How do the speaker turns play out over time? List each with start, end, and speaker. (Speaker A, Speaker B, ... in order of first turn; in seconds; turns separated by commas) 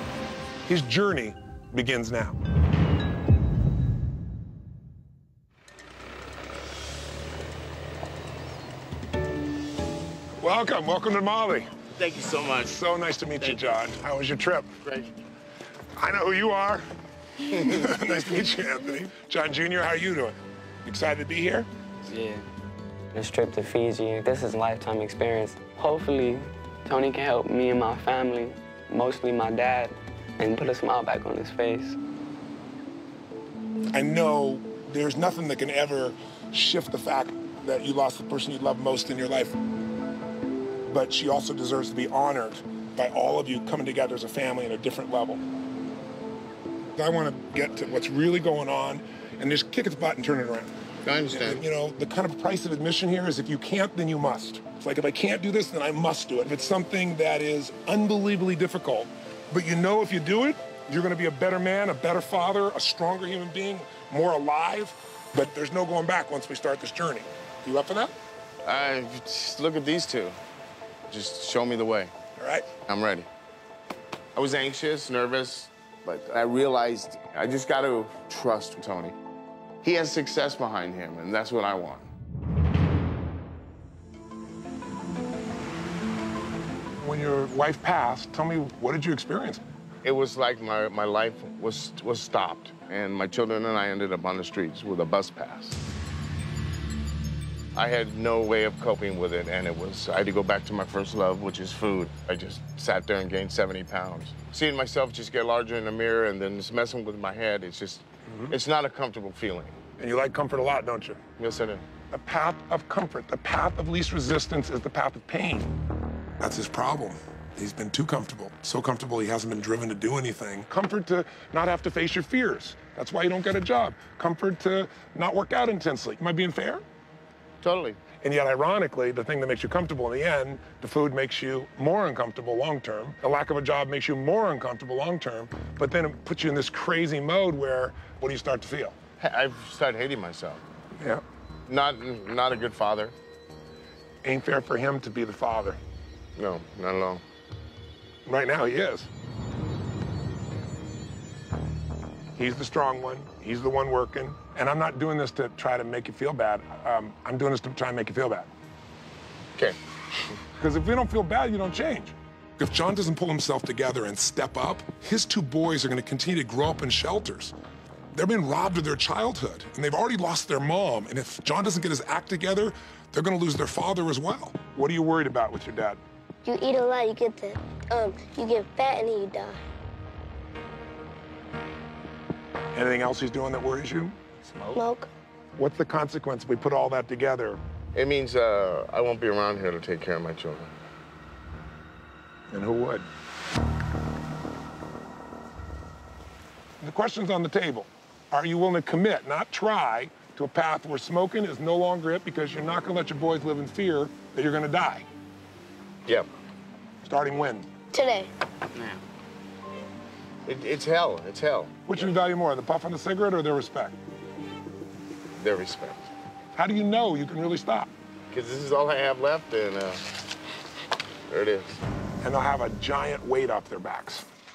Speaker A: 0.7-2.4, Speaker A: 10.4-11.7, Speaker B: 11.9-12.7, Speaker A: 12.6-14.7, Speaker B: 13.4-13.7, Speaker B: 14.8-15.1, Speaker A: 15.9-16.8, Speaker A: 17.5-21.7, Speaker C: 22.1-22.4, Speaker C: 23.1-32.0, Speaker A: 33.9-39.5, Speaker A: 40.9-45.4, Speaker A: 47.0-50.7, Speaker B: 51.0-51.6, Speaker A: 51.3-68.1, Speaker B: 68.6-70.4, Speaker B: 71.1-72.1, Speaker A: 72.4-72.7, Speaker B: 72.8-73.3, Speaker B: 74.3-79.2, Speaker B: 79.8-82.1, Speaker A: 87.0-89.6, Speaker B: 90.0-95.8, Speaker B: 97.7-109.8, Speaker A: 108.3-108.5, Speaker A: 110.0-111.2, Speaker B: 111.4-111.8, Speaker A: 112.1-115.7, Speaker A: 116.4-126.8, Speaker B: 127.6-128.0, Speaker A: 128.2-138.9, Speaker B: 139.2-140.6, Speaker B: 141.7-143.1, Speaker A: 144.2-145.8, Speaker B: 146.4-147.2, Speaker A: 148.2-149.1, Speaker A: 152.3-158.5, Speaker A: 160.6-167.5, Speaker A: 168.1-176.0, Speaker D: 176.4-179.7, Speaker A: 182.7-184.2, Speaker D: 184.7-185.1, Speaker A: 185.6-187.6, Speaker B: 187.9-190.7, Speaker A: 192.5-193.1, Speaker A: 196.8-205.1, Speaker A: 207.0-207.7, Speaker D: 207.9-208.3, Speaker B: 210.4-211.7, Speaker A: 211.9-213.9, Speaker B: 215.3-216.1, Speaker A: 216.6-217.9, Speaker B: 218.3-220.0, Speaker B: 221.3-221.8, Speaker A: 222.2-224.3